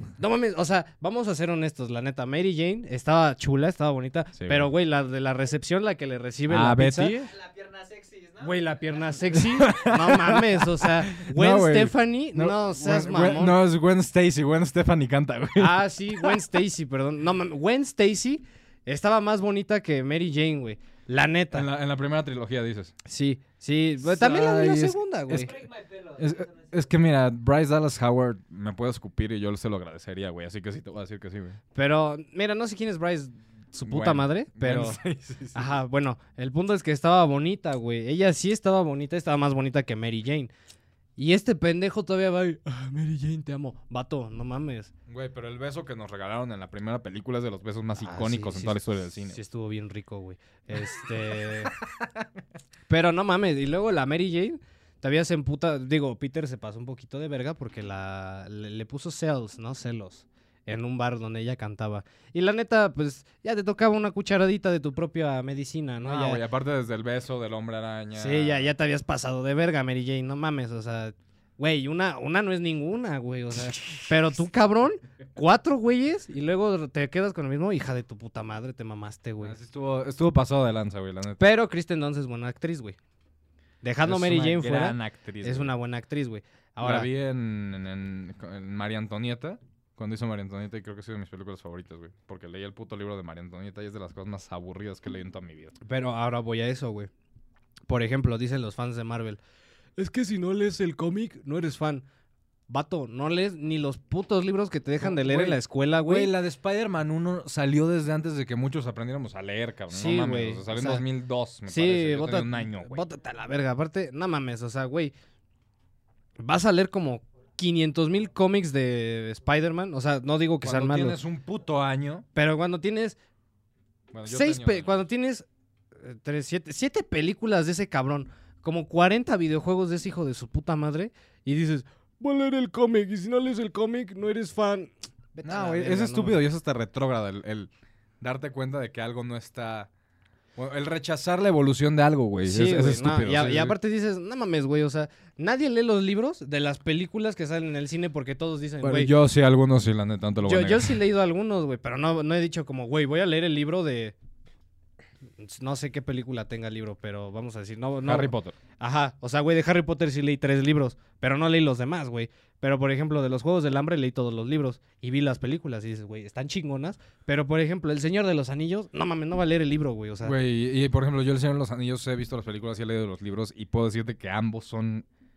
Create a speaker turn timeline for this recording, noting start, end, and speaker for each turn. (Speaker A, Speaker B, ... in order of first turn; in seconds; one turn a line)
Speaker A: 0.2-7.3
Speaker B: 4.3-4.7
Speaker B: 6.5-7.2
Speaker C: 7.2-9.9
Speaker A: 8.4-13.6
Speaker B: 9.4-16.5
Speaker A: 15.6-21.7
Speaker B: 21.5-23.0
Speaker A: 23.1-25.6
Speaker B: 24.0-25.6
Speaker C: 25.3-26.9
Speaker B: 26.2-31.6
Speaker A: 31.8-35.0
Speaker B: 33.8-35.8
Speaker A: 35.5-40.5
Speaker A: 41.2-44.9
Speaker B: 45.1-49.4
Speaker A: 48.0-51.7
Speaker B: 50.8-52.3
Speaker A: 52.9-66.4
Speaker B: 66.0-68.7
Speaker A: 68.2-79.6
Speaker B: 79.4-81.5
Speaker A: 81.4-83.0
Speaker A: 83.8-87.1
Speaker B: 84.0-85.7
Speaker B: 86.8-95.8
Speaker A: 95.8-97.1
Speaker A: 97.9-99.4
Speaker A: 100.0-102.1
Speaker A: 102.7-106.3
Speaker B: 105.0-113.1
Speaker A: 109.9-111.0
Speaker A: 111.7-115.1
Speaker A: 116.4-121.2
Speaker B: 120.6-122.3
Speaker A: 122.3-123.2
Speaker B: 124.1-125.0
Speaker A: 124.2-125.5
Speaker A: 126.0-136.4
Speaker B: 135.4-137.7
Speaker B: 138.2-139.9
Speaker B: 140.6-143.8
Speaker A: 142.4-149.1
Speaker B: 148.8-151.0
Speaker A: 150.4-154.1
Speaker A: 155.4-170.4
Speaker B: 158.1-158.6
Speaker B: 170.2-175.1